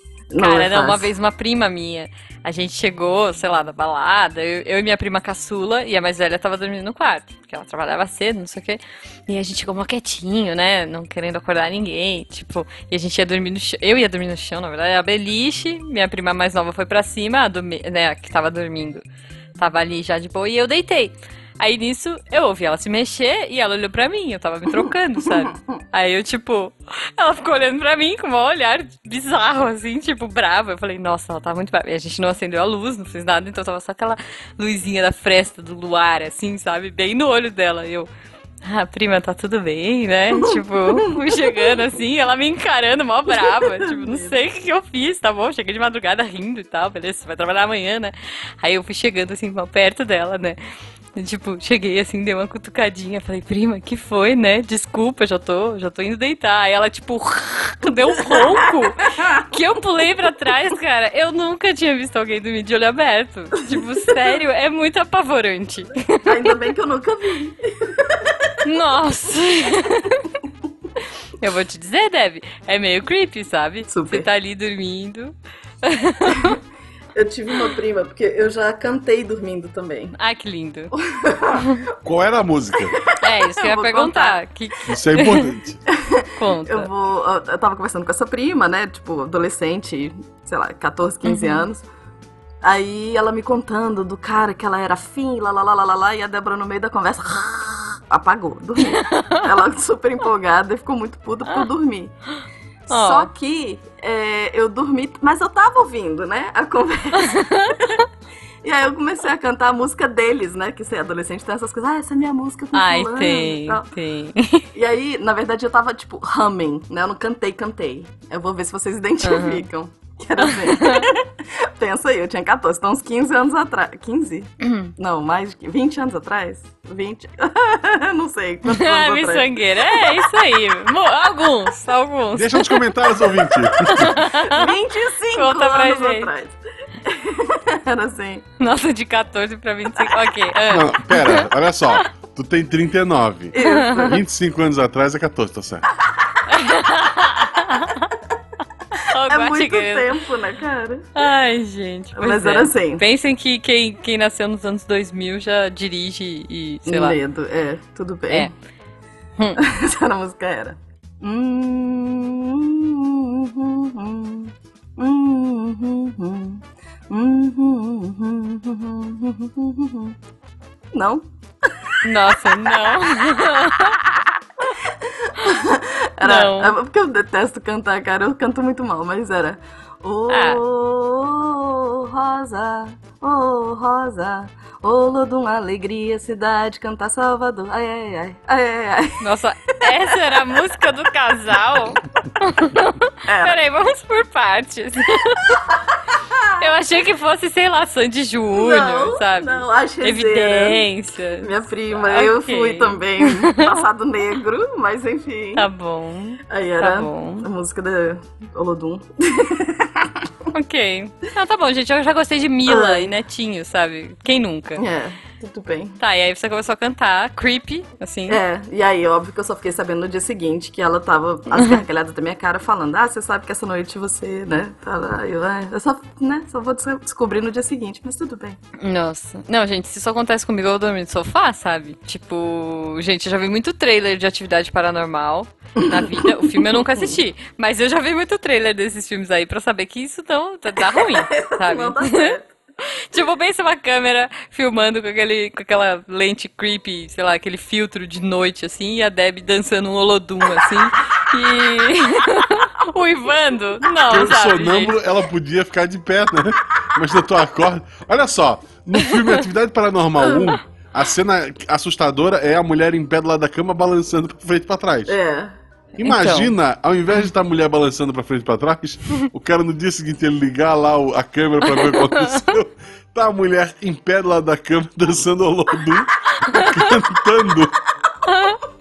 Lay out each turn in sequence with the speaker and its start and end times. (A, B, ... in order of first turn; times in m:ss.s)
0:00.3-0:01.1 A
0:00.4-0:19.0 B
0:19.6-0:38.1 B
0:38.6-0:50.6 B
0:40.3-0:41.7 A
0:43.4-0:44.3 A
0:51.1-1:06.5 B
0:58.3-0:59.4 A
1:06.2-1:08.5 A
1:08.6-1:10.3 B
1:11.4-1:16.6 B
1:13.9-1:14.3 A
1:17.1-1:20.1 A
1:20.1-1:20.9 B
1:20.9-1:21.8 A
1:22.0-1:23.0 C
1:22.9-1:24.4 A
1:23.2-1:25.5 B
1:24.9-1:25.8 C
1:25.9-1:31.8 A
1:26.4-1:26.9 B
1:31.2-1:31.6 B
1:32.6-1:42.1 A
1:38.8-1:39.5 B
1:42.9-1:48.0 A
1:42.9-1:43.3 B
1:47.2-1:48.0 B
1:48.6-1:53.9 A
1:52.7-1:54.6 B
1:54.7-2:10.2 A
1:59.2-1:59.6 B
2:00.4-2:01.1 B
2:04.6-2:04.9 B
2:08.6-2:12.8 B
2:12.3-2:14.2 C
2:13.8-2:14.7 B
2:14.2-2:18.4 A
2:15.3-2:16.3 B
2:18.6-2:22.0 B
2:20.7-2:25.9 C
2:23.5-2:24.2 A
2:23.6-2:24.2 B
2:26.5-2:28.1 B
2:28.9-2:30.1 B
2:29.3-2:31.1 A
2:31.2-2:37.2 B
2:32.2-2:33.0 A
2:36.8-2:38.5 A
2:39.6-2:50.2 A
2:50.9-3:09.2 A
2:52.0-2:54.0 B
2:56.2-2:56.7 B
3:00.3-3:00.6 B
3:09.2-3:15.6 B
3:09.9-3:10.6 A
3:13.3-3:13.6 A
3:15.5-3:16.6 A
3:16.6-3:23.8 B
3:18.5-3:20.8 A
3:21.4-3:25.7 A
3:25.6-3:27.5 B
3:26.5-3:30.3 A
3:30.5-3:34.8 B
3:32.6-3:33.1 A
3:34.8-3:36.0 A
3:36.0-3:38.4 B
3:38.3-3:48.6 A
3:41.5-3:41.8 B
3:48.8-4:15.0 B
3:55.8-3:57.2 A
4:00.8-4:02.5 A
4:14.1-4:25.2 C
4:25.1-4:25.5 A
4:26.0-4:37.7 C
4:26.0-4:26.5 B
4:31.6-4:32.4 B
4:36.4-4:36.9 B
4:38.2-4:38.6 B